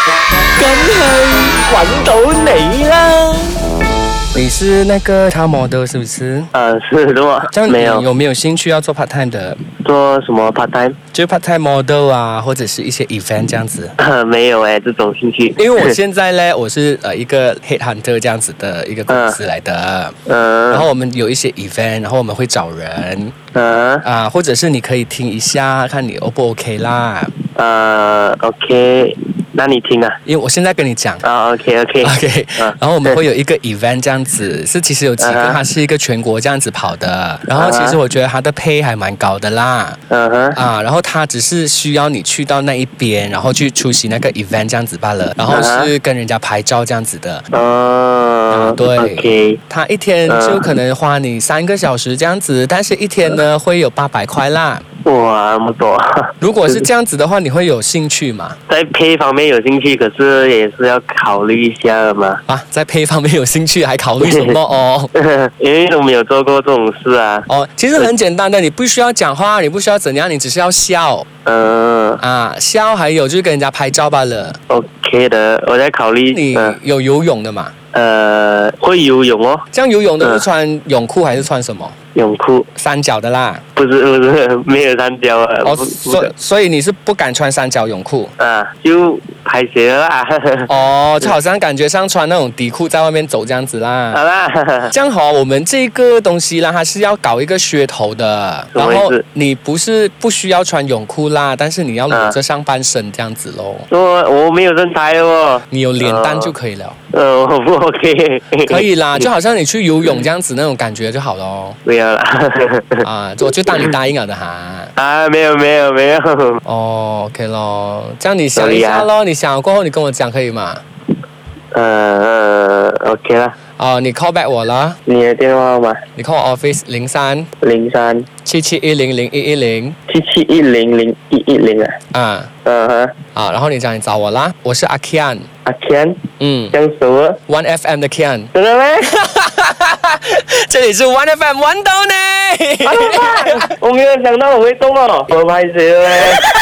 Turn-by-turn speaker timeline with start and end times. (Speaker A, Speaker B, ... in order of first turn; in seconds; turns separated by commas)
Speaker A: 0.6-3.5, Speaker B: 4.3-6.5, Speaker C: 6.5-8.1, Speaker B: 7.5-9.6, Speaker C: 9.8-11.0, Speaker B: 11.1-13.9, Speaker C: 14.0-16.0, Speaker B: 15.6-20.1, Speaker C: 19.1-19.4, Speaker C: 20.3-20.9, Speaker B: 20.7-23.4, Speaker C: 23.5-24.1, Speaker B: 24.0-27.3, Speaker C: 27.6-30.2, Speaker B: 30.2-31.2, Speaker C: 31.2-33.2, Speaker B: 32.0-40.0, Speaker C: 35.2-35.6, Speaker C: 37.5-38.0, Speaker C: 40.1-40.6, Speaker B: 40.5-47.5, Speaker C: 45.5-45.9, Speaker C: 47.5-49.6, Speaker B: 48.5-54.8, Speaker C: 50.3-50.7, Speaker C: 55.0-56.9, Speaker B: 56.4-58.6, Speaker C: 58.7-62.4, Speaker B: 62.5-65.1, Speaker C: 64.2-64.6, Speaker C: 65.2-68.1, Speaker B: 67.5-71.3, Speaker C: 71.5-72.2, Speaker B: 72.2-74.6, Speaker C: 74.7-76.8, Speaker B: 76.3-77.7, Speaker C: 77.9-79.7, Speaker B: 79.7-82.0, Speaker C: 80.2-80.5, Speaker C: 82.2-82.7, Speaker B: 82.8-83.6, Speaker C: 83.8-86.3, Speaker B: 85.6-88.3, Speaker C: 88.4-91.3, Speaker B: 90.7-94.2, Speaker C: 94.1-94.9, Speaker B: 94.9-103.9, Speaker C: 98.7-99.2, Speaker C: 102.1-102.4, Speaker C: 103.9-106.5, Speaker B: 105.7-107.0, Speaker C: 107.1-109.3, Speaker B: 108.7-111.8, Speaker C: 111.8-113.1, Speaker B: 113.0-114.9, Speaker C: 113.7-113.9, Speaker C: 115.0-116.6, Speaker B: 116.7-120.8, Speaker C: 118.6-119.1, Speaker C: 121.7-123.5, Speaker B: 123.8-125.0, Speaker C: 125.1-126.0, Speaker B: 126.2-127.5, Speaker C: 127.6-128.3, Speaker B: 128.4-130.0, Speaker C: 130.1-132.0, Speaker B: 132.1-132.5, Speaker C: 132.6-133.2, Speaker B: 133.3-135.5, Speaker C: 135.7-137.4, Speaker B: 136.4-136.8, Speaker B: 137.5-138.5, Speaker C: 138.5-139.2, Speaker B: 139.3-143.7, Speaker C: 142.8-146.4